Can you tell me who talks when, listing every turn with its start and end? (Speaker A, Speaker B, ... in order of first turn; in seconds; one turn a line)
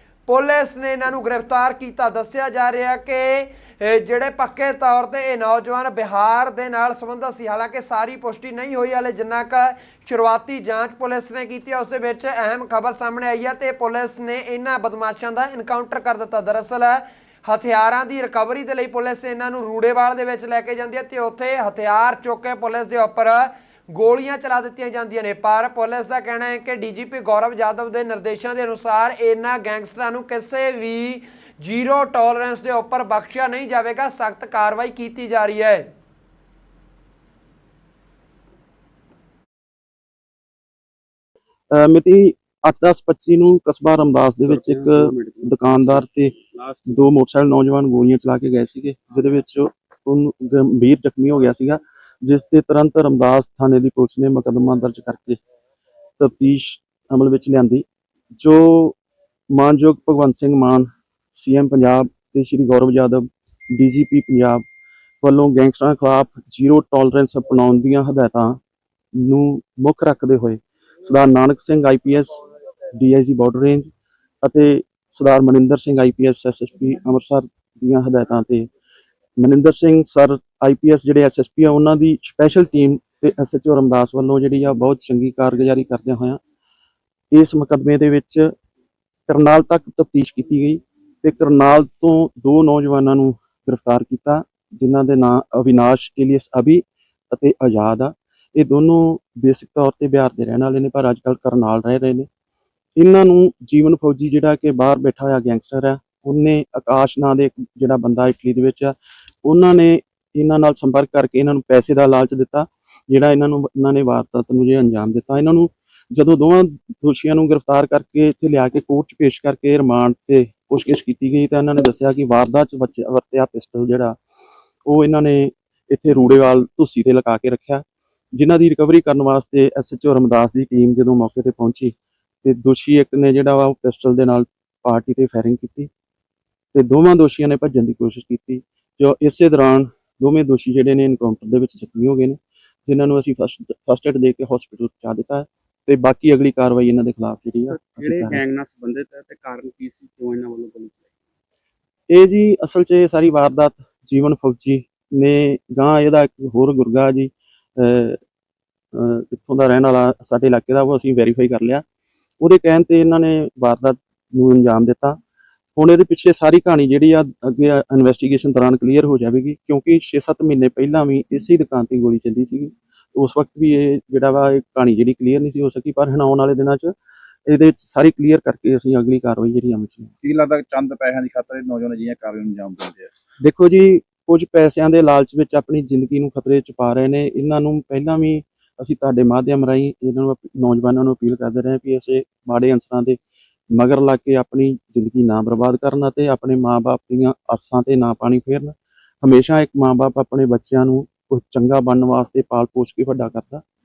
Speaker A: 0.3-35.9
Speaker B: 41.7-46.3
Speaker C: 44.5-47.0
Speaker B: 46.9-55.4
Speaker B: 56.2-57.8
Speaker B: 58.4-59.0
Speaker B: 59.5-64.6
Speaker B: 65.2-68.5
Speaker B: 69.2-72.4
Speaker B: 73.0-73.9
Speaker B: 74.4-78.7
Speaker B: 79.4-86.4
Speaker B: 87.3-88.5
Speaker B: 89.3-102.3
Speaker B: 103.0-124.2
Speaker B: 124.8-127.8
Speaker B: 128.3-131.9
Speaker B: 132.4-135.9
Speaker B: 136.7-148.4
Speaker C: 147.7-151.0
Speaker B: 152.1-158.2
Speaker B: 158.9-161.8
Speaker B: 162.4-165.2
Speaker B: 165.8-176.9
Speaker B: 177.4-180.1
Speaker D: 180.2-183.1
Speaker B: 183.4-193.2
Speaker B: 193.7-203.6